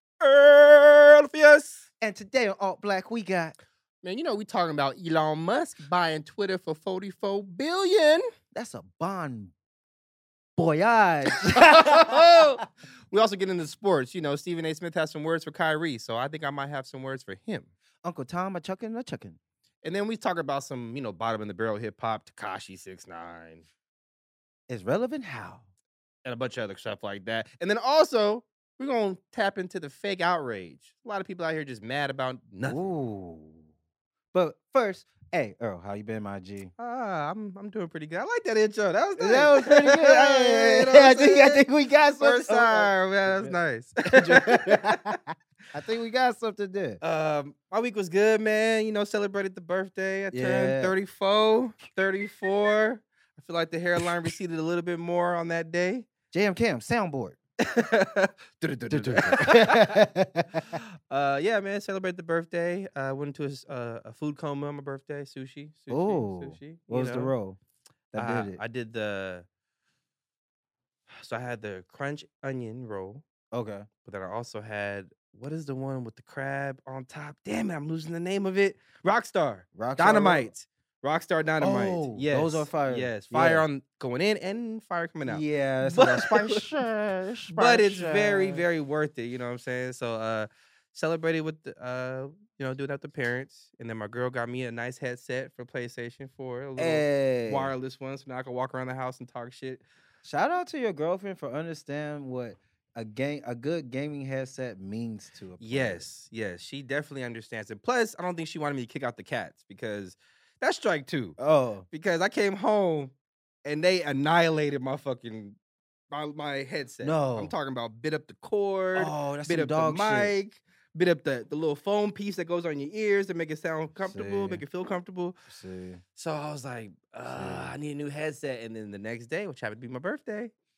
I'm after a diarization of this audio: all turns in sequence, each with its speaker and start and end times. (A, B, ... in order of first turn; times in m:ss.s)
0:00.2-0:01.9 A
0:02.0-0:03.6 B
0:04.0-0:08.3 A
0:08.5-0:09.5 B
0:10.6-0:12.4 B
0:11.3-0:17.7 A
0:18.0-0:19.4 B
0:19.8-0:23.7 A
0:24.7-0:25.6 B
0:26.2-0:32.9 A
0:32.6-0:33.6 B
0:34.3-0:36.7 B
0:36.8-0:41.6 A
0:39.2-0:43.6 B
0:42.2-0:45.1 A
0:44.1-0:47.0 B
0:47.0-0:56.1 A
0:50.3-0:51.0 B
0:56.3-0:57.4 B
0:57.6-1:00.0 A
0:58.9-1:00.7 B
1:00.7-1:07.3 A
1:05.9-1:07.6 B
1:08.1-1:08.6 B
1:08.2-1:09.5 A
1:11.1-1:13.2 A
1:13.5-1:13.9 B
1:14.0-1:26.7 A
1:19.8-1:20.5 B
1:21.6-1:23.7 B
1:25.2-1:28.6 B
1:27.6-1:39.8 A
1:36.8-1:37.7 B
1:40.2-1:46.1 B
1:45.6-1:51.4 A
1:51.4-1:51.9 B
1:51.9-1:53.1 A
1:53.6-1:55.6 A
1:56.1-2:05.4 A
1:57.0-1:57.5 B
1:58.9-2:00.4 B
2:04.0-2:04.6 B
2:05.5-2:06.0 B
2:06.2-2:10.5 A
2:07.3-2:07.7 B